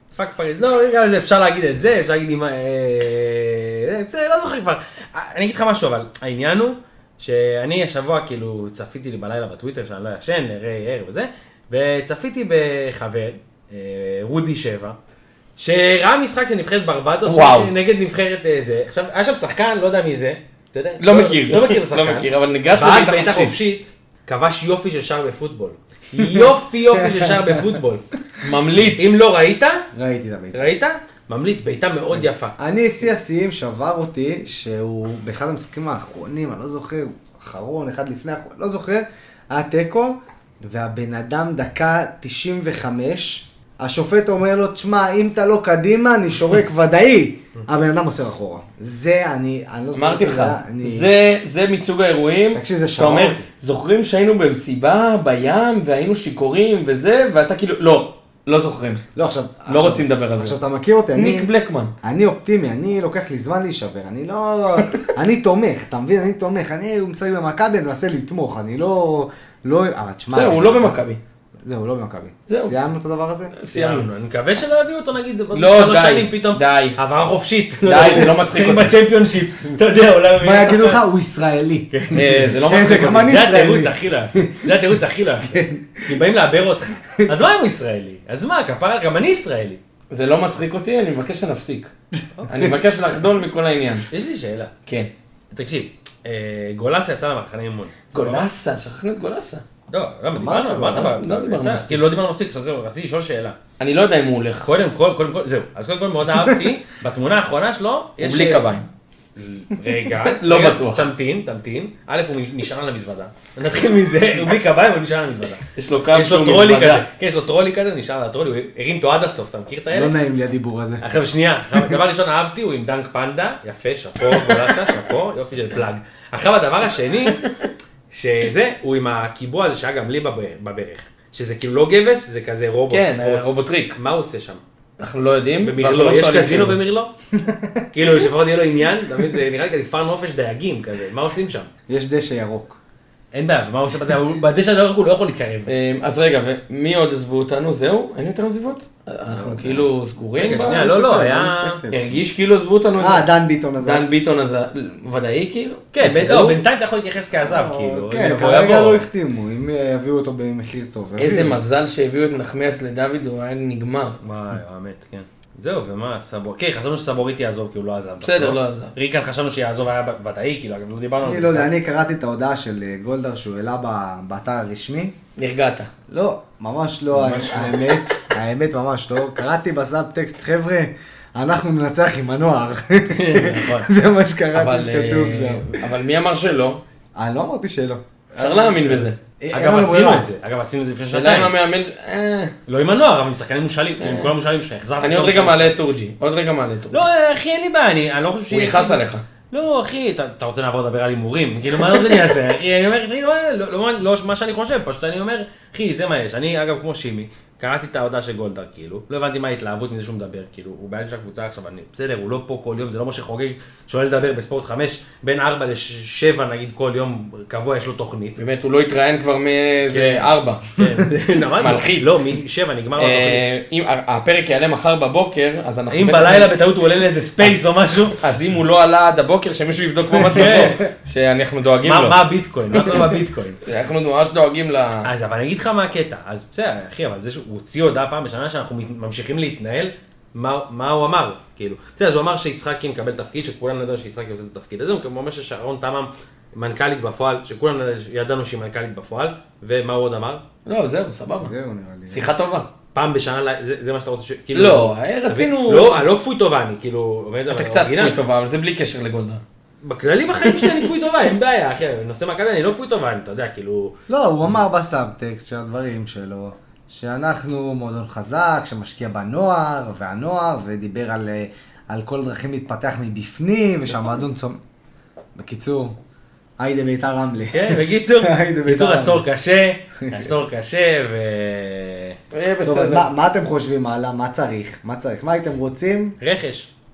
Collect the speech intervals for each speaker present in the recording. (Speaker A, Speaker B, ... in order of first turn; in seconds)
Speaker A: 0.1-14.9, 15.6-28.0, 28.9-29.9, 30.5-32.5, 73.7-81.0, 81.9-89.8, 94.1-94.7, 95.5-98.5, 99.9-103.6, 104.6-108.7, 109.3-120.1, 121.0-127.5, 128.1-134.6, 135.6-137.1, 137.9-141.7, 143.3-145.7, 150.4-151.9, 155.9-159.1, 164.2-171.7, 177.1-178.0, 183.1-183.9, 189.5-191.5, 192.7-195.7, 196.9-218.4, 219.9-223.4, 225.9-228.2, 230.3-230.8, 231.8-233.6, 235.0-250.4, 252.9-258.2, 259.8-264.0, 277.5-282.2, 286.2-286.7
Speaker B: 17.2-17.7, 21.0-23.6, 28.4-29.2, 49.9-59.0, 59.7-60.6, 61.1-61.9, 70.3-71.2, 72.5-72.7, 73.6-74.1, 75.5-77.0, 77.8-78.9, 82.1-83.3, 90.1-91.9, 92.5-94.1, 94.8-95.1, 98.1-99.6, 100.9-102.0, 103.8-104.7, 108.2-108.8, 110.2-111.1, 115.8-117.0, 124.3-124.8, 127.4-127.7, 132.9-134.0, 135.0-136.8, 145.7-150.8, 151.9-153.2, 153.8-156.6, 161.2-164.2, 168.2-168.9, 175.4-175.9, 184.5-186.8, 188.4-189.2, 191.1-192.5, 194.0-194.3, 195.0-197.1, 198.5-199.2, 218.4-220.7, 221.5-222.3, 223.0-226.5, 228.2-232.2, 232.8-233.1, 233.6-235.1, 250.7-251.5, 252.1-252.7, 254.5-256.1, 257.5-259.4, 260.4-260.9, 282.3-283.1
Speaker C: 29.9-30.6, 32.6-51.1, 52.5-53.5, 59.1-61.5, 62.0-71.0, 71.6-73.5, 80.4-84.7, 85.4-86.1, 92.4-92.7, 100.3-101.2, 119.9-121.0, 137.3-137.9, 141.9-142.8, 149.3-149.8, 150.5-152.2, 153.0-154.1, 157.4-161.6, 171.2-175.1, 176.1-185.8, 187.2-190.3, 230.1-230.9, 251.4-252.2, 264.1-274.6, 275.4-275.9, 276.6-279.2, 280.0-280.3, 282.6-286.2